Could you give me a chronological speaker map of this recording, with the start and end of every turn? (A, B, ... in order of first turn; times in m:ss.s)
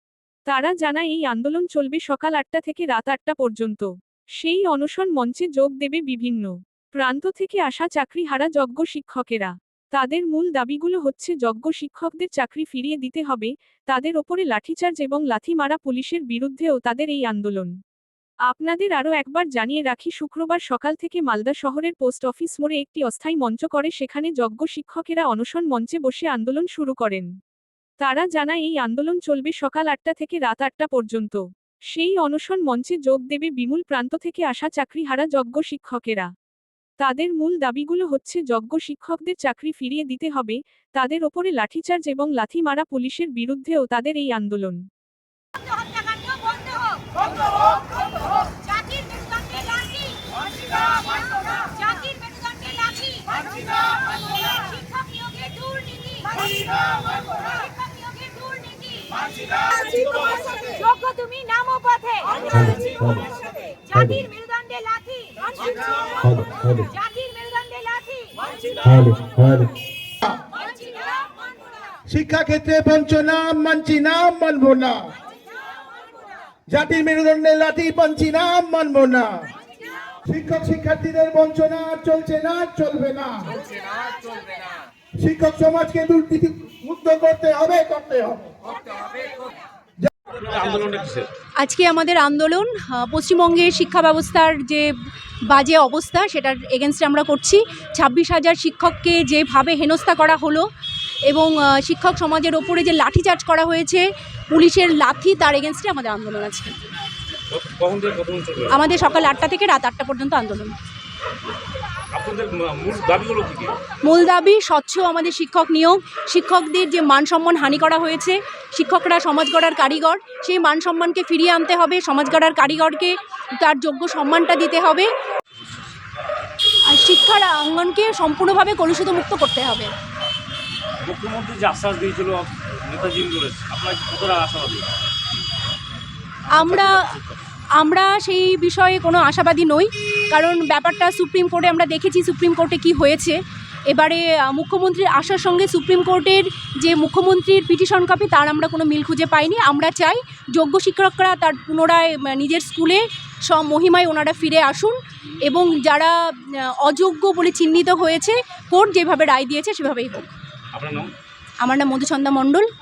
0:00.5-0:17.7 A
0:18.5-0:27.3 A
0:28.0-0:36.3 A
0:37.0-0:44.8 A
0:45.9-0:46.9 B
0:48.8-0:50.0 B
0:51.5-0:53.4 B
0:54.3-0:56.6 B
0:57.5-0:59.1 B
0:59.8-1:02.2 B
1:02.6-1:03.2 C
1:03.9-1:04.2 C
1:04.3-1:05.6 B
1:06.2-1:06.9 C
1:07.2-1:08.4 B
1:08.8-1:09.7 C
1:12.1-1:15.0 C
1:16.7-1:19.3 C
1:20.2-1:23.5 C
1:25.2-1:28.5 C
1:30.4-1:31.3 D
1:31.6-1:34.9 E
1:35.5-1:40.6 E
1:41.2-1:46.7 E
1:47.5-1:48.8 D
1:48.7-1:50.7 E
1:52.1-1:53.8 D
1:54.0-2:05.1 E
2:06.9-2:09.9 E
2:11.0-2:14.9 D
2:16.5-2:17.0 E
2:16.6-2:17.3 D
2:17.8-2:23.4 E
2:23.9-2:40.3 E
2:40.7-2:41.1 D
2:41.6-2:42.6 E